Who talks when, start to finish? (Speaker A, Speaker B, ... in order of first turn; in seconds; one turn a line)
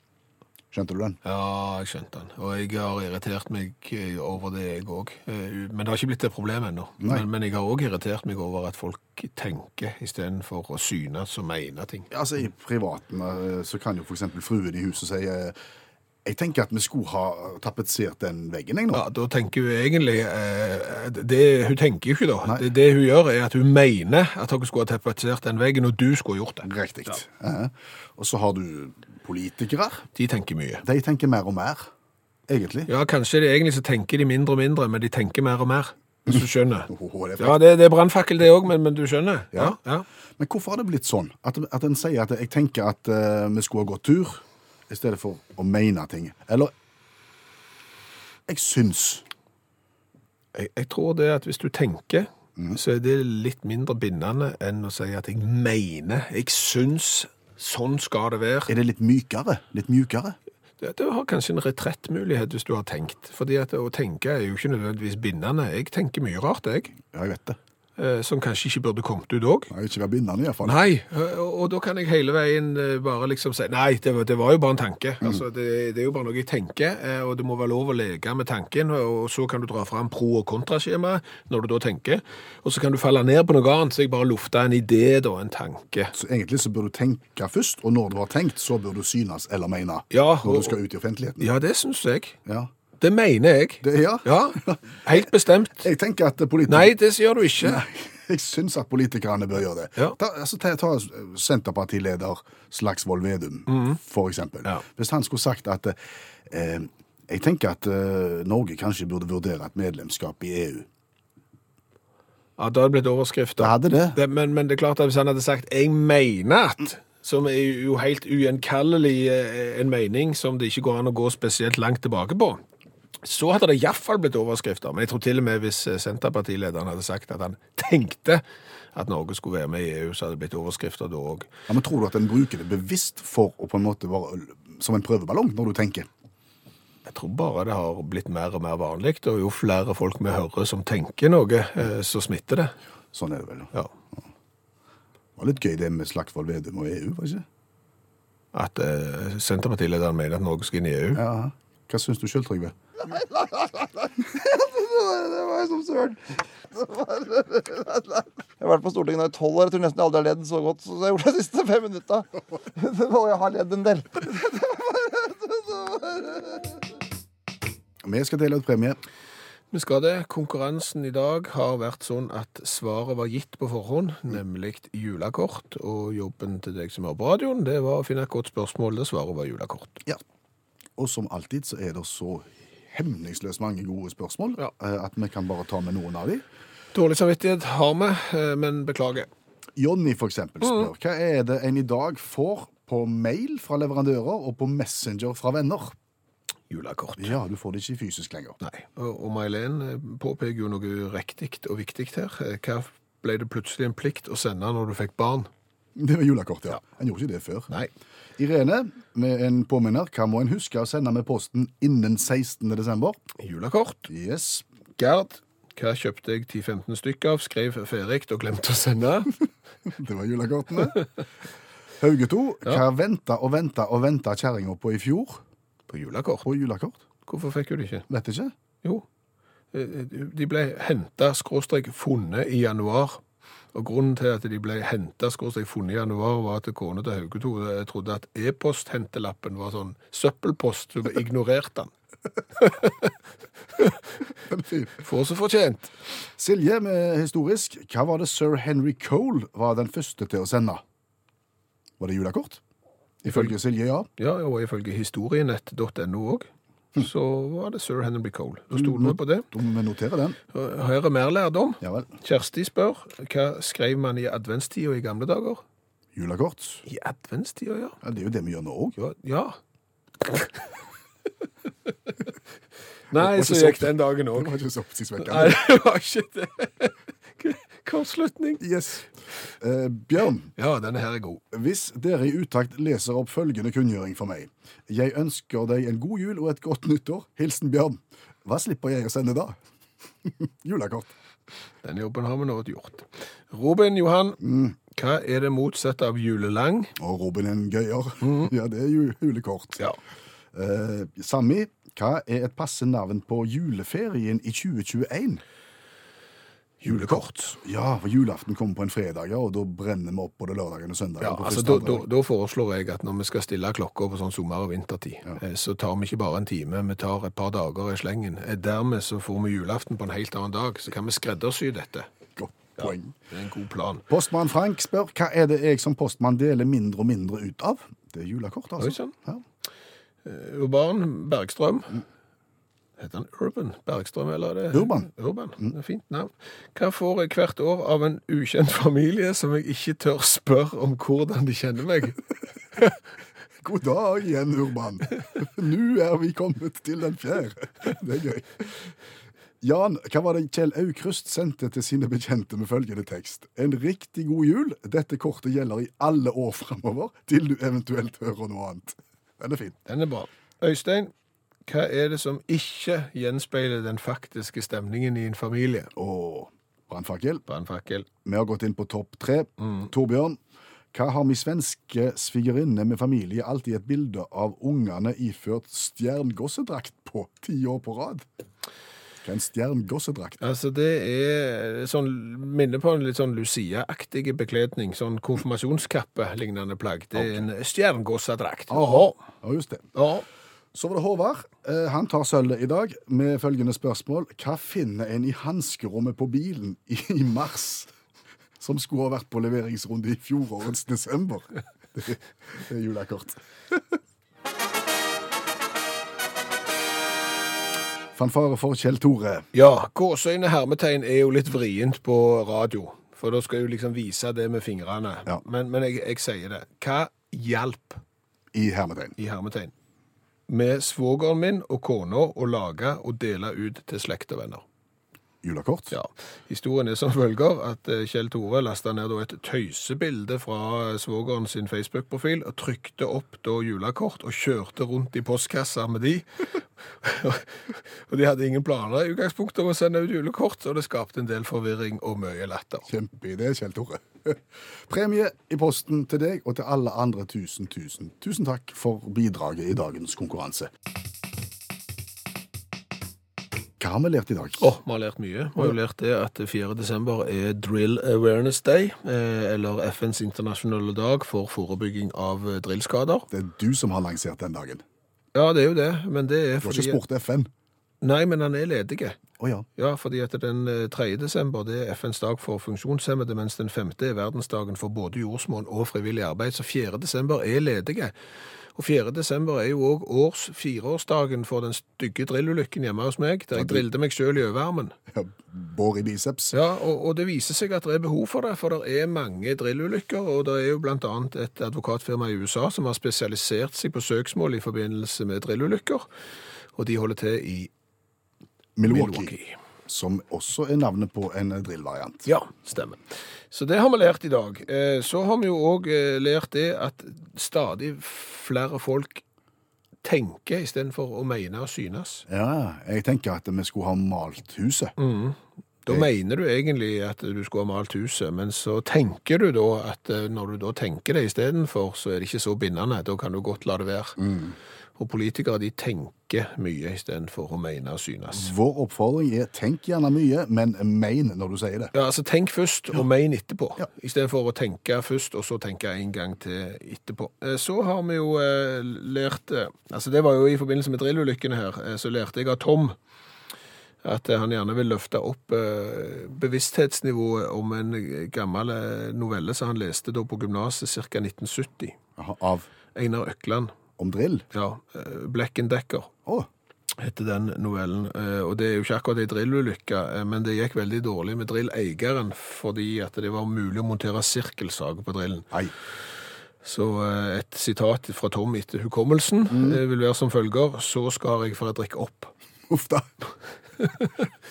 Speaker A: 0.7-1.2
Speaker B: 1.2-12.1
Speaker A: 7.0-7.2
Speaker A: 12.1-15.6
Speaker A: 16.2-19.0
Speaker B: 18.9-26.7
Speaker A: 26.6-30.0
Speaker B: 30.1-30.8
Speaker A: 30.8-31.9
Speaker A: 32.5-32.9
Speaker B: 32.9-40.0
Speaker A: 36.9-37.6
Speaker A: 40.4-46.7
Speaker A: 48.5-49.2
Speaker B: 50.5-58.7
Speaker A: 58.7-60.4
Speaker B: 60.8-66.9
Speaker A: 67.0-67.6
Speaker B: 68.0-69.7
Speaker A: 69.7-70.8
Speaker B: 70.6-86.1
Speaker A: 86.1-91.5
Speaker B: 90.1-90.8
Speaker B: 91.4-92.4
Speaker B: 93.0-95.9
Speaker A: 93.8-96.9
Speaker B: 96.7-97.8
Speaker A: 97.6-110.9
Speaker B: 103.7-104.0
Speaker B: 112.6-122.6
Speaker A: 113.6-114.2
Speaker B: 123.2-128.4
Speaker B: 128.9-131.5
Speaker A: 131.7-136.1
Speaker B: 137.1-142.7
Speaker A: 143.1-144.2
Speaker A: 145.4-147.4
Speaker B: 148.5-151.2
Speaker A: 151.1-152.7
Speaker C: 153.0-166.8
Speaker A: 168.0-169.0
Speaker B: 169.7-180.0
Speaker A: 181.0-186.4
Speaker B: 186.9-189.3
Speaker A: 189.8-195.9
Speaker B: 196.7-197.3
Speaker A: 197.2-198.6
Speaker B: 198.6-205.5
Speaker A: 205.9-207.7
Speaker A: 208.4-213.2
Speaker B: 213.4-214.1
Speaker A: 214.1-214.7
Speaker B: 215.0-219.3
Speaker A: 219.8-221.0
Speaker A: 222.0-225.4
Speaker B: 225.9-226.5
Speaker A: 226.4-227.0
Speaker B: 227.2-228.1
Speaker A: 228.1-228.5
Speaker B: 229.7-233.2
Speaker B: 233.7-241.9
Speaker B: 242.6-243.1
Speaker A: 244.4-245.0
Speaker B: 244.9-245.9
Speaker A: 246.4-250.8
Speaker A: 252.0-252.6
Speaker B: 253.2-253.5
Speaker A: 253.2-254.1
Speaker B: 254.2-259.5
Speaker A: 258.7-260.4
Speaker B: 260.5-265.6
Speaker A: 261.8-262.1
Speaker A: 266.1-266.8
Speaker B: 266.9-268.0
Speaker A: 268.0-269.0
Speaker B: 269.0-269.6
Speaker B: 270.2-270.5
Speaker B: 273.1-274.5
Speaker A: 273.1-275.6
Speaker B: 275.2-278.6
Speaker A: 278.6-279.1
Speaker A: 279.6-280.5
Speaker B: 280.6-281.4
Speaker A: 281.5-289.6
Speaker A: 290.2-291.1
Speaker B: 291.8-294.4
Speaker A: 294.4-294.8
Speaker B: 294.9-296.9
Speaker A: 297.0-299.8
Speaker B: 298.2-298.5
Speaker A: 300.5-305.4
Speaker B: 306.8-307.6
Speaker A: 306.9-312.0
Speaker B: 311.2-322.1
Speaker A: 322.4-323.1
Speaker B: 322.8-324.1
Speaker A: 324.1-329.4
Speaker B: 328.8-329.1
Speaker B: 330.2-332.0
Speaker B: 333.0-342.2
Speaker A: 334.7-335.7
Speaker A: 343.6-348.9
Speaker A: 349.6-359.8
Speaker B: 359.9-361.1
Speaker B: 361.6-365.9
Speaker A: 365.9-367.4
Speaker B: 367.5-368.1
Speaker A: 368.2-370.4
Speaker B: 369.6-369.9
Speaker A: 370.9-378.3
Speaker A: 379.2-380.4
Speaker B: 380.4-389.1
Speaker A: 387.1-387.4
Speaker A: 388.7-389.9
Speaker B: 389.9-390.2
Speaker A: 390.7-397.9
Speaker A: 398.6-403.8
Speaker A: 408.1-409.5
Speaker B: 409.5-418.0
Speaker A: 418.5-419.1
Speaker B: 419.2-419.7
Speaker B: 420.5-424.6
Speaker A: 425.4-425.9
Speaker B: 425.9-436.4
Speaker B: 437.0-442.9
Speaker A: 442.9-450.7
Speaker A: 453.8-454.7
Speaker B: 454.6-463.3
Speaker A: 463.3-464.8
Speaker B: 465.3-467.0
Speaker A: 466.6-467.5
Speaker B: 468.0-469.2
Speaker A: 469.4-469.6
Speaker B: 469.8-478.1
Speaker B: 478.8-484.9
Speaker A: 483.5-483.8
Speaker A: 485.1-486.5
Speaker B: 486.5-496.1
Speaker B: 496.8-497.7
Speaker A: 498.8-499.3
Speaker B: 498.9-499.6
Speaker A: 499.9-502.3
Speaker B: 502.2-509.2
Speaker B: 510.0-512.2
Speaker A: 512.3-514.9
Speaker B: 515.0-524.2
Speaker A: 524.2-524.5
Speaker B: 525.0-528.5
Speaker A: 528.3-531.9
Speaker B: 531.9-543.0
Speaker B: 544.0-552.0
Speaker A: 552.2-552.7
Speaker B: 552.9-553.7
Speaker A: 554.0-554.5
Speaker B: 554.5-556.1
Speaker B: 557.0-565.5
Speaker B: 566.6-572.3
Speaker A: 569.5-569.8
Speaker A: 572.7-573.1
Speaker B: 573.8-574.1